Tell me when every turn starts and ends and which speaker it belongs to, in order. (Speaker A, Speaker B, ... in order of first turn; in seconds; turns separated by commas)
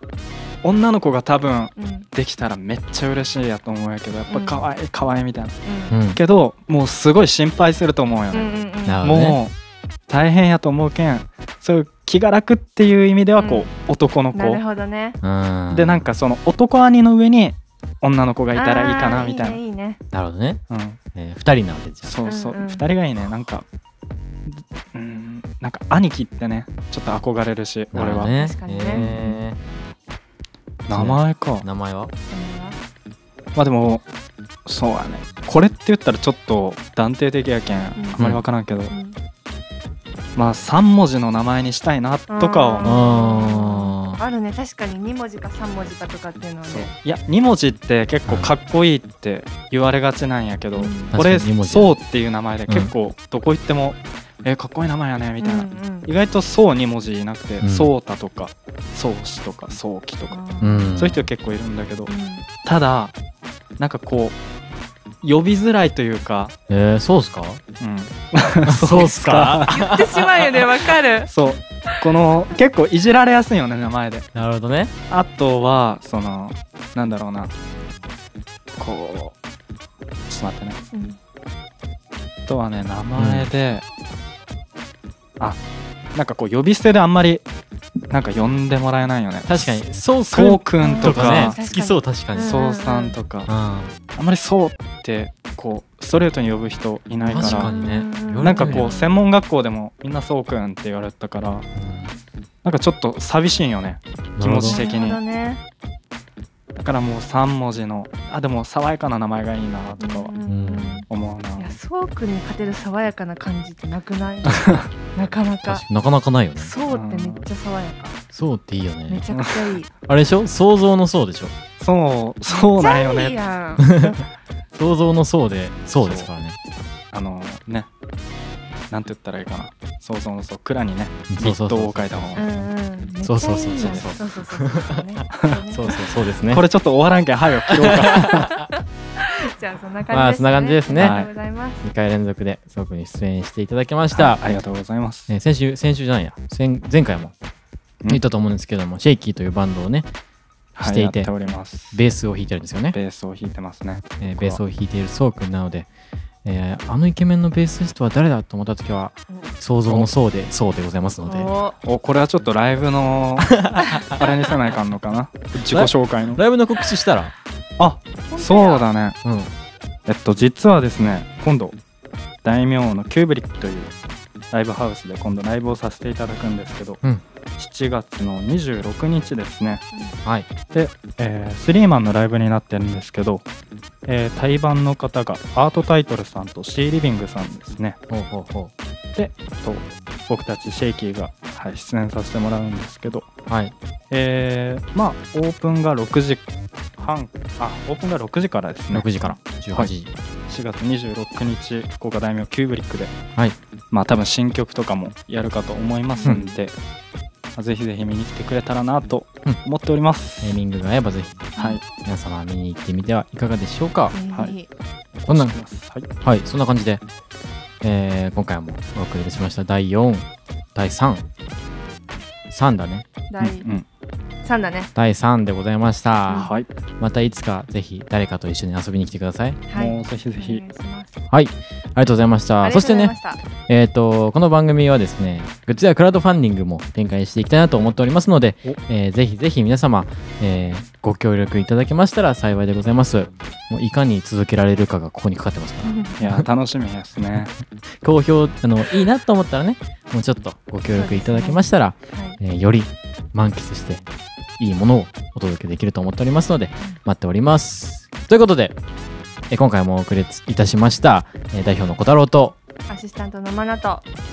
Speaker A: 0.6-5.6, Speaker B: 1.8-2.1, Speaker B: 4.3-4.6, Speaker B: 5.6-6.0, Speaker C: 5.9-6.2, Speaker A: 6.2-9.5, Speaker B: 8.3-9.1, Speaker C: 8.8-9.4, Speaker A: 10.1-14.6, Speaker B: 13.4-13.7, Speaker B: 14.3-15.2, Speaker C: 15.2-16.1, Speaker A: 15.7-19.6, Speaker B: 18.5-20.0, Speaker C: 20.1-20.6, Speaker A: 20.7-21.0, Speaker C: 21.1-22.2, Speaker A: 22.0-23.7, Speaker B: 22.2-22.9, Speaker A: 24.5-29.4, Speaker C: 27.9-29.6, Speaker B: 28.3-29.1, Speaker A: 30.9-31.6, Speaker C: 30.9-32.1, Speaker B: 32.3-32.8, Speaker A: 33.5-34.0, Speaker A: 34.7-38.9, Speaker B: 38.0-38.2, Speaker C: 38.2-38.4, Speaker B: 38.9-39.2, Speaker A: 40.4-43.0, Speaker B: 42.3-46.9, Speaker C: 42.8-44.2, Speaker A: 46.6-60.4, Speaker C: 48.3-48.5, Speaker B: 50.8-51.2, Speaker C: 51.1-52.0, Speaker B: 55.4-56.1, Speaker C: 57.6-57.9, Speaker B: 60.3-61.2, Speaker C: 60.6-61.2, Speaker A: 61.0-62.1, Speaker B: 62.1-62.5, Speaker A: 62.6-63.1, Speaker A: 63.8-64.4, Speaker A: 65.2-66.5, Speaker C: 66.7-67.6, Speaker A: 67.8-69.8, Speaker C: 68.7-70.4, Speaker B: 69.7-71.3, Speaker A: 71.3-74.3, Speaker C: 74.3-74.9, Speaker A: 75.1-77.5, Speaker A: 78.8-79.3, Speaker A: 80.3-80.8, Speaker B: 80.9-81.2, Speaker A: 82.5-83.9, Speaker C: 83.2-83.5, Speaker A: 86.1-87.4, Speaker A: 88.1-91.6, Speaker C: 89.5-92.6, Speaker B: 90.8-93.2, Speaker A: 92.4-93.5, Speaker C: 93.5-94.0, Speaker A: 94.1-97.7, Speaker C: 97.3-98.9, Speaker B: 97.3-99.2, Speaker A: 98.4-101.7, Speaker C: 101.8-102.1, Speaker A: 102.6-105.2, Speaker C: 104.4-104.8, Speaker B: 104.7-105.6, Speaker A: 106.8-110.3, Speaker B: 110.0-111.1, Speaker C: 110.5-111.0, Speaker A: 111.1-111.8, Speaker B: 111.6-115.8, Speaker C: 114.5-114.8, Speaker A: 114.5-114.8, Speaker C: 115.6-116.7, Speaker B: 116.6-118.2, Speaker A: 116.9-117.5, Speaker C: 118.3-119.3, Speaker B: 119.1-119.9, Speaker C: 120.1-121.5, Speaker A: 121.8-124.2, Speaker B: 122.5-123.9, Speaker C: 123.8-124.1, Speaker C: 124.8-126.6, Speaker A: 126.0-126.3, Speaker A: 127.1-127.9, Speaker A: 128.9-132.5, Speaker C: 131.3-135.0, Speaker B: 132.3-136.0, Speaker A: 133.8-134.2, Speaker C: 135.7-136.6, Speaker A: 136.5-138.6, Speaker B: 138.7-141.8, Speaker C: 140.1-141.2, Speaker A: 140.9-141.3, Speaker C: 141.8-144.4, Speaker A: 144.1-145.3, Speaker C: 145.3-147.3, Speaker C: 148.1-150.1, Speaker A: 150.8-152.0, Speaker C: 150.8-151.3, Speaker C: 151.9-153.0, Speaker A: 152.9-154.6, Speaker C: 154.2-155.9, Speaker C: 156.4-161.5, Speaker A: 159.9-160.1, Speaker B: 161.2-161.8, Speaker A: 161.8-166.4, Speaker C: 163.4-164.2, Speaker C: 165.6-167.3, Speaker A: 167.8-169.2, Speaker B: 168.3-168.8, Speaker C: 169.2-169.5, Speaker A: 170.1-171.8, Speaker A: 172.4-173.9, Speaker A: 174.5-177.0, Speaker A: 177.6-179.9, Speaker B: 179.9-180.2, Speaker A: 180.7-183.4, Speaker A: 184.1-188.0, Speaker C: 188.1-188.7, Speaker A: 189.2-193.3, Speaker C: 193.5-193.7, Speaker A: 194.1-196.4, Speaker A: 197.0-199.9, Speaker C: 198.9-200.1, Speaker A: 200.5-203.2, Speaker A: 203.9-206.8, Speaker B: 206.1-206.6, Speaker A: 207.6-210.6, Speaker C: 210.4-214.2, Speaker A: 211.6-211.8, Speaker B: 214.1-214.7, Speaker A: 215.2-216.1, Speaker C: 215.3-215.6, Speaker C: 216.2-217.0, Speaker C: 217.8-221.2, Speaker C: 222.5-223.1, Speaker B: 223.3-223.7, Speaker A: 223.4-223.9, Speaker B: 224.4-224.9, Speaker C: 225.0-229.6, Speaker B: 226.3-226.6, Speaker A: 226.3-226.7, Speaker B: 229.7-231.1, Speaker A: 229.8-230.6, Speaker C: 231.3-246.4, Speaker B: 232.6-233.4, Speaker B: 245.8-246.2, Speaker A: 246.2-247.5, Speaker C: 248.0-254.0, Speaker B: 250.9-252.4, Speaker C: 254.6-258.8, Speaker C: 259.5-262.6, Speaker B: 262.9-264.0